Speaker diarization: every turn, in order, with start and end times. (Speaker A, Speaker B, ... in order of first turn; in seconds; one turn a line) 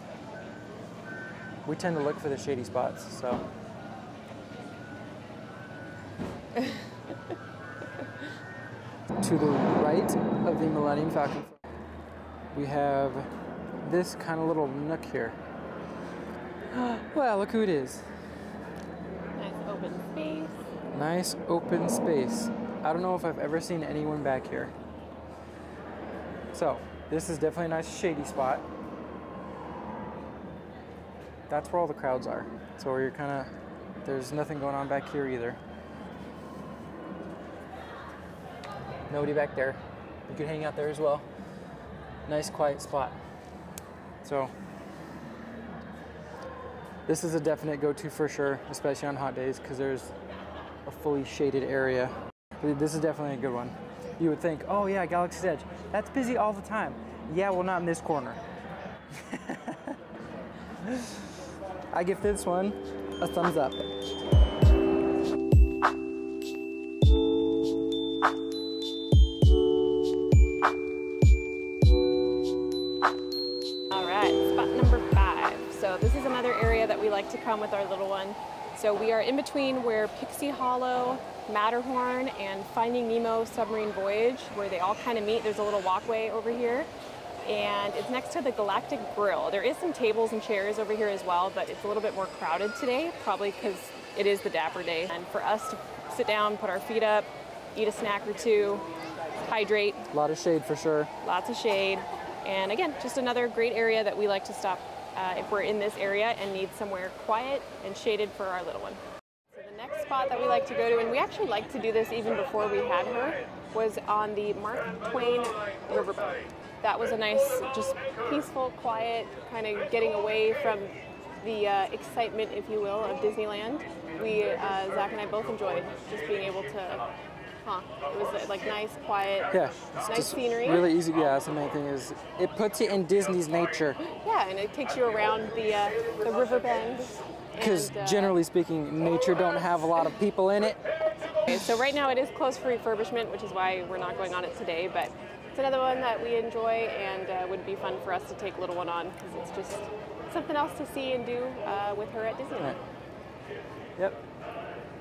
Speaker A: 1.6-3.4
Speaker A: 9.2-11.6
Speaker A: 12.5-13.3
Speaker A: 13.8-15.4
Speaker A: 16.7-18.1
Speaker B: 19.4-20.6
Speaker A: 20.9-24.7
Speaker A: 26.5-28.6
Speaker A: 31.5-33.5
Speaker A: 34.0-35.6
Speaker A: 39.1-41.3
Speaker A: 42.3-43.2
Speaker A: 44.2-44.5
Speaker A: 47.1-50.1
Speaker A: 50.9-58.4
Speaker A: 59.1-60.0
Speaker A: 60.8-61.4
Speaker A: 61.9-63.9
Speaker B: 73.9-86.9
Speaker B: 87.5-98.8
Speaker B: 99.4-100.1
Speaker A: 100.1-101.1
Speaker B: 101.2-127.0
Speaker B: 127.6-129.5
Speaker A: 129.5-134.0
Speaker B: 130.1-130.9
Speaker B: 134.0-138.4
Speaker A: 137.6-140.8
Speaker B: 141.5-152.8